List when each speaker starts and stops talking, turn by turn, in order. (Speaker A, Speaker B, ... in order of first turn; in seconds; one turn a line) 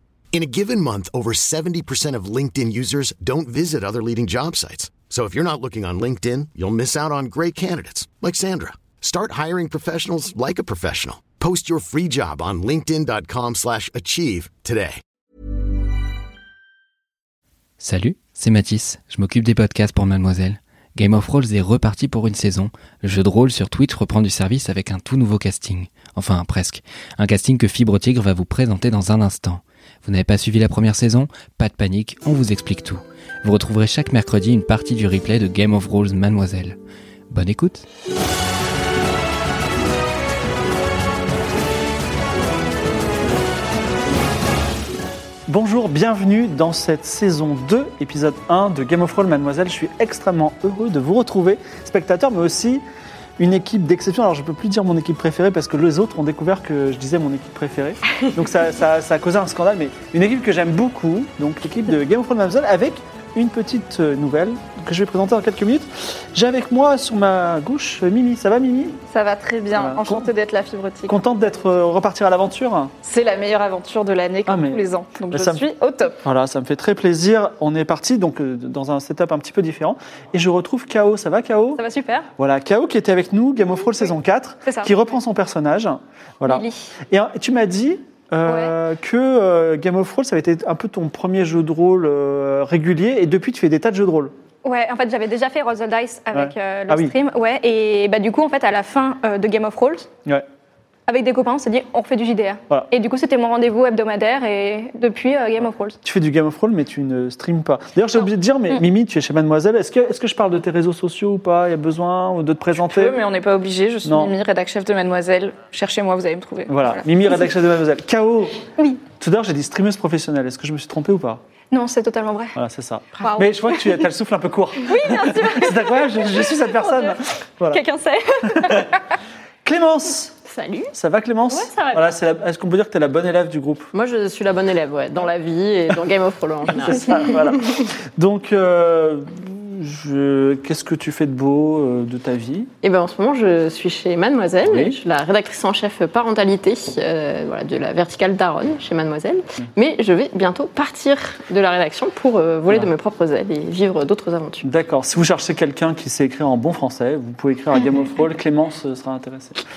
Speaker A: 0.3-15.0
Speaker B: 17.8-36.8
Speaker B: 37.3-37.8
Speaker C: 45.5-52.8
Speaker C: 53.4-69.0
Speaker D: 69.1-71.2
Speaker C: 69.7-70.3
Speaker C: 71.1-72.9
Speaker D: 73.0-76.2
Speaker C: 74.5-75.7
Speaker C: 76.2-81.8
Speaker E: 81.8-82.3
Speaker C: 82.4-94.3
Speaker E: 84.7-84.9
Speaker E: 86.5-86.9
Speaker E: 88.4-88.7
Speaker E: 94.6-100.1
Speaker C: 96.3-97.1
Speaker E: 101.1-106.0
Speaker C: 106.0-113.2
Speaker D: 112.9-117.0
Speaker C: 114.0-114.3
Speaker C: 116.7-118.6
Speaker C: 119.2-121.4
Speaker E: 121.7-122.5
Speaker C: 122.5-127.8
Speaker E: 123.2-124.0
Speaker E: 124.8-128.9
Speaker C: 128.4-128.9
Speaker C: 129.6-130.4
Speaker F: 130.4-130.9
Speaker C: 130.9-133.9
Speaker F: 131.7-132.0
Speaker F: 133.9-137.8
Speaker C: 136.8-142.7
Speaker F: 142.8-154.7
Speaker C: 144.6-145.0
Speaker C: 154.6-159.6